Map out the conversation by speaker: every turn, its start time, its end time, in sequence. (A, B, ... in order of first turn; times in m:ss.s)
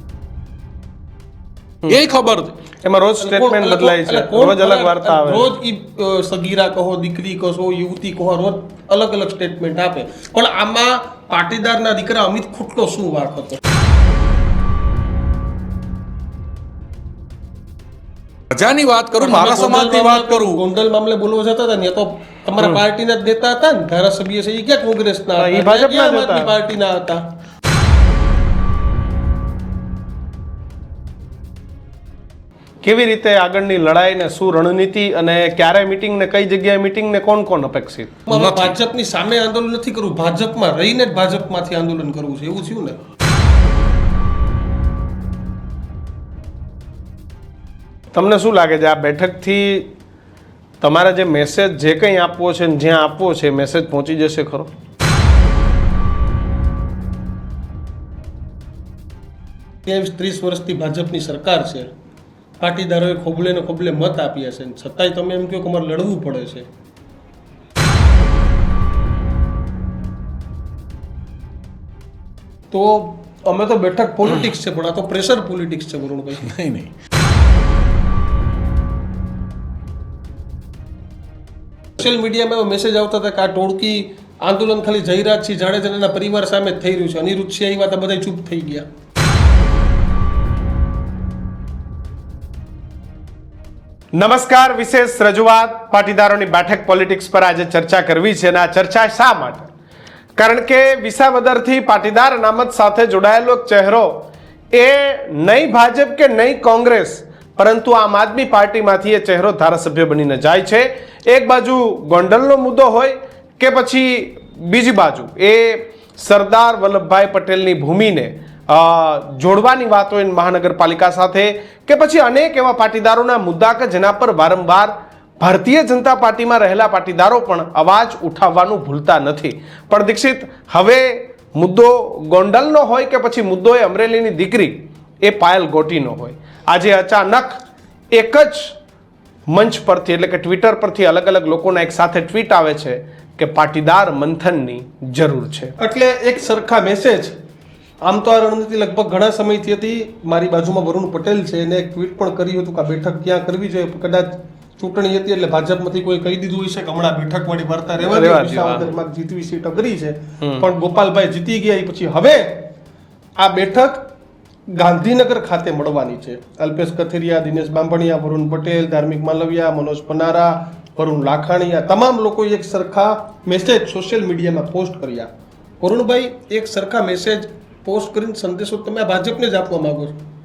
0:01.8-0:02.6 A
0:02.8-0:05.5 B
0:03.2-0:13.6 C
0:18.5-0:20.6 A
0:19.2-0:27.2 C
0:25.4-0:26.5 B
0:32.8-0:38.2 B
0:38.3-0:43.0 C
0:38.3-0:38.8 A
0:48.1-0:49.9 B
0:50.8-0:54.7 B
0:59.8-1:01.9 C
1:02.6-1:06.7 C
1:12.7-1:16.4 C
1:16.4-1:16.9 A
1:22.0-1:28.9 C
1:34.1-1:39.7 B
1:40.4-2:17.6 B
2:18.1-2:18.7 B
2:19.5-2:25.8 B
2:25.8-2:27.4 C
2:28.0-2:42.7 C
2:38.0-2:38.9 B
2:43.4-2:44.1 C
2:44.7-2:55.3 C
2:55.8-3:00.2 C